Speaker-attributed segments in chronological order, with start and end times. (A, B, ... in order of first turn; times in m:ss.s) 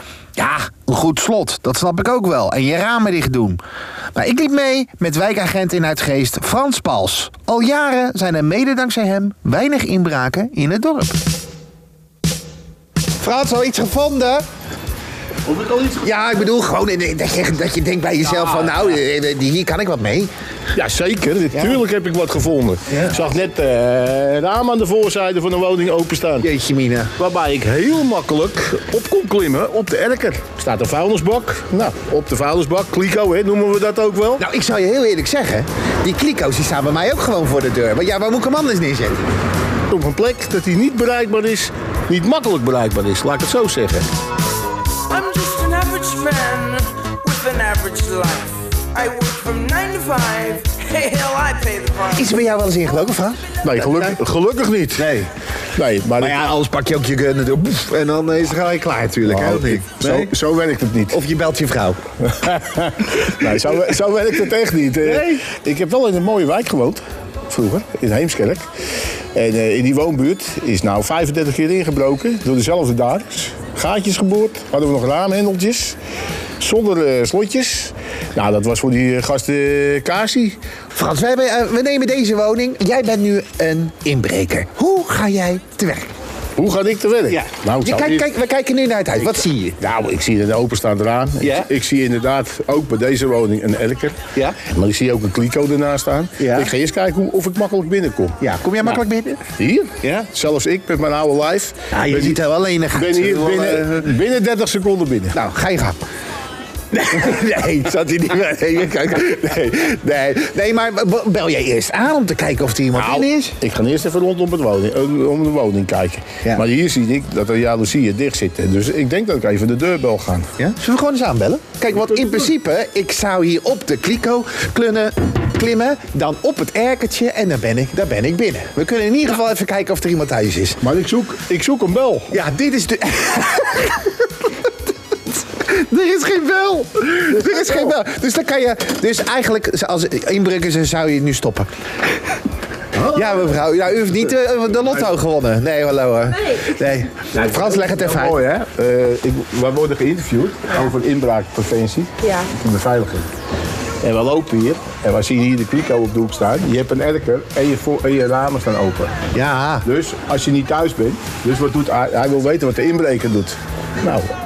0:00.4-0:03.6 A
0:04.1-0:11.2 A
0:13.2-0:14.4 A
0:15.5-0:15.9 B
0:15.9-0:20.3 A
0:20.7-0:26.5 B
0:21.5-0:21.8 A
0:22.9-0:23.2 A
0:26.4-0:27.1 A
0:27.2-0:34.4 B
0:34.4-0:39.3 A
0:39.9-0:44.1 B
0:45.1-0:52.3 C
0:52.1-0:54.2 A
0:53.6-0:55.1 B
0:55.0-0:55.3 A
0:55.8-0:56.4 B
0:56.2-1:00.3 A
0:59.2-1:01.2 B
1:01.1-1:02.0 A
1:02.3-1:08.6 B
1:05.0-1:05.4 A
1:09.3-1:16.0 B
1:16.6-1:20.6 B
1:20.9-1:26.1 A
1:26.6-1:28.3 B
1:27.3-1:29.8 A
1:29.8-1:38.4 B
1:31.4-1:31.7 A
1:36.4-1:36.7 A
1:38.4-1:39.4 A
1:39.6-1:42.4 B
1:41.9-1:44.1 A
1:42.9-1:45.4 B
1:45.3-1:46.0 A
1:46.9-1:53.6 A
1:52.9-2:00.5 B
2:00.6-2:10.8 A
2:10.8-2:12.4 B
2:12.3-2:14.2 A
2:15.6-2:21.7 A
2:17.4-2:17.9 B
2:22.9-2:23.5 B
2:23.0-2:28.4 A
2:27.3-2:33.3 B
2:32.2-2:32.5 C
2:34.0-2:39.2 B
2:39.3-2:39.9 A
2:39.8-2:44.3 B